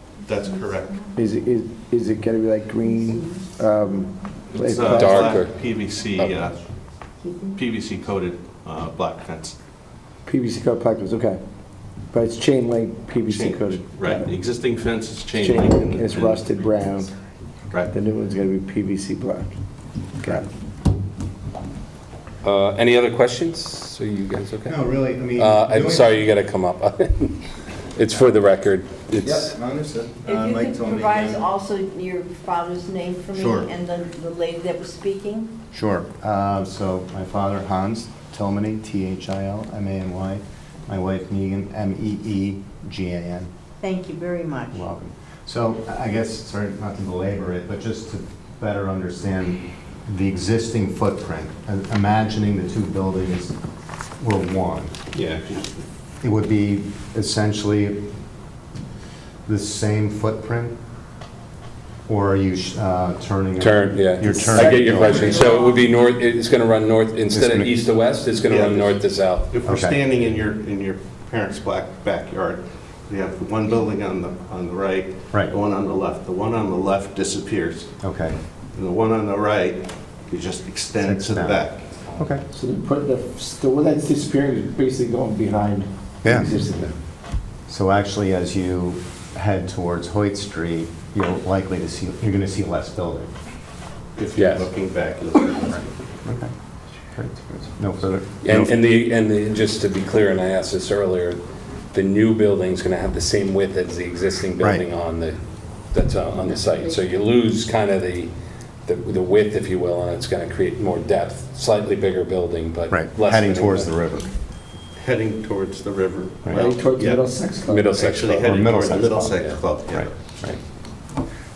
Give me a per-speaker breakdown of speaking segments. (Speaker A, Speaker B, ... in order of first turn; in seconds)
Speaker A: 0.2-1.0, 4.5-6.6, 7.5-9.6, 13.2-16.6, 55.1-55.7, 68.5-77.9, 78.7-81.9, 94.2-96.0, 115.0-120.2
Speaker B: 1.1-5.4, 10.2-11.4, 12.1-14.3, 15.4-17.1, 17.9-19.5, 20.2-20.5, 82.5-86.9, 116.5-117.8
Speaker C: 4.8-5.6, 22.4-24.8, 25.3-27.3, 27.9-29.5, 63.6-69.5, 94.3-94.7, 98.4-101.4, 101.9-105.3, 105.9-108.3, 108.8-113.9, 117.7-118.7
Speaker D: 7.2-7.5, 30.2-35.4, 43.8-44.7
Speaker E: 24.6-26.2, 29.3-31.5, 33.3-33.7, 35.7-43.5, 44.7-53.5, 54.2-55.0, 56.2-58.0, 59.5-60.8, 62.1-65.4, 67.3-67.8, 69.6-70.0, 78.0-78.4, 81.0-81.6, 82.2-82.4, 86.2-86.5, 87.7-93.3, 96.2-96.5, 97.1-98.8, 104.6-104.8, 112.9-114.3, 118.4-120.1